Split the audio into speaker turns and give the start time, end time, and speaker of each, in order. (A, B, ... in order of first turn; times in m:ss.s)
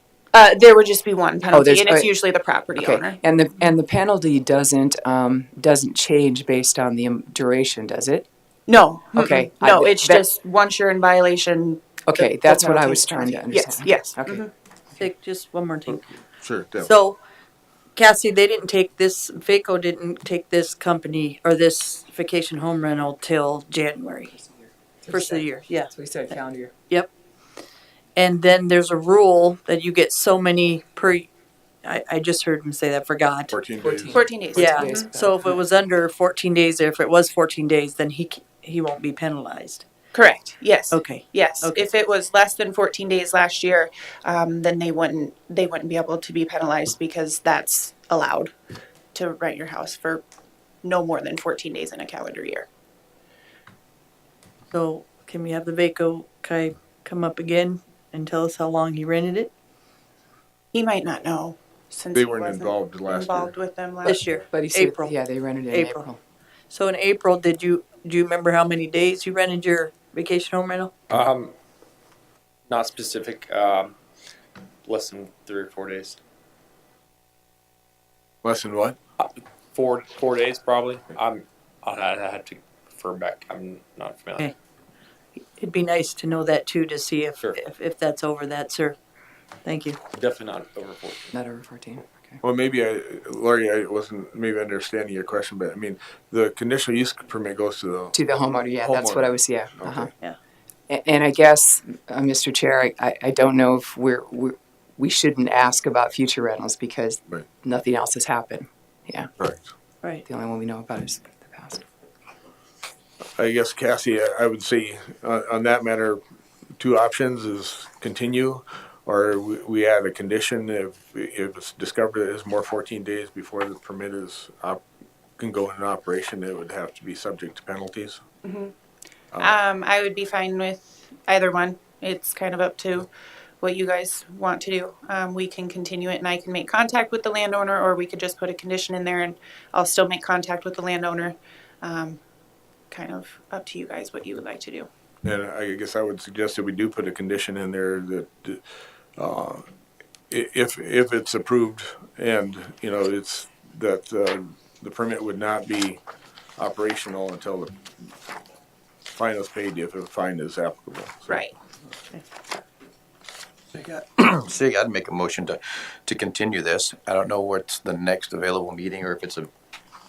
0:00.3-0:03.2 A
0:01.5-0:02.1 B
0:02.8-0:08.3 B
0:08.7-0:14.5 A
0:09.1-0:10.2 B
0:12.1-0:14.4 B
0:15.0-0:16.2 C
0:16.4-0:16.9 D
0:16.8-0:17.2 C
0:18.0-0:24.3 C
0:24.3-0:26.7 B
0:25.1-0:26.4 C
0:28.2-0:31.3 C
0:31.8-0:33.5 C
0:33.5-0:33.9 D
0:33.8-0:35.6 B
0:34.1-0:35.1 A
0:34.5-0:39.8 C
0:40.1-0:48.5 A
0:40.9-0:41.9 C
0:49.2-0:50.2 A
0:50.8-0:52.7 A
0:54.7-0:59.5 C
1:00.7-1:04.2 A
1:02.2-1:03.5 D
1:04.0-1:05.2 C
1:04.0-1:06.2 B
1:05.7-1:06.0 C
1:06.7-1:10.9 C
1:11.1-1:11.5 E
1:12.7-1:14.0 E
1:14.8-1:16.2 E
1:18.4-1:19.0 D
1:19.2-1:24.5 E
1:25.6-1:29.0 C
1:29.6-1:30.0 C
1:30.1-1:31.3 E
1:31.3-1:32.4 B
1:32.4-1:38.1 D
1:38.1-1:40.1 B
1:38.8-1:39.2 D
1:40.9-1:49.3 B
1:50.2-1:51.8 B
1:53.4-1:56.2 D
1:56.8-2:04.8 D
2:05.4-2:08.2 D
2:08.4-2:08.7 A
2:09.4-2:13.1 A
2:13.6-2:22.2 A
2:22.9-2:24.9 A
2:25.3-2:28.6 D
2:29.2-2:29.6 D
2:30.3-2:36.0 D
2:36.6-2:37.8 D
2:39.2-2:41.4 D
2:41.3-2:41.5 A
2:43.7-2:49.5 F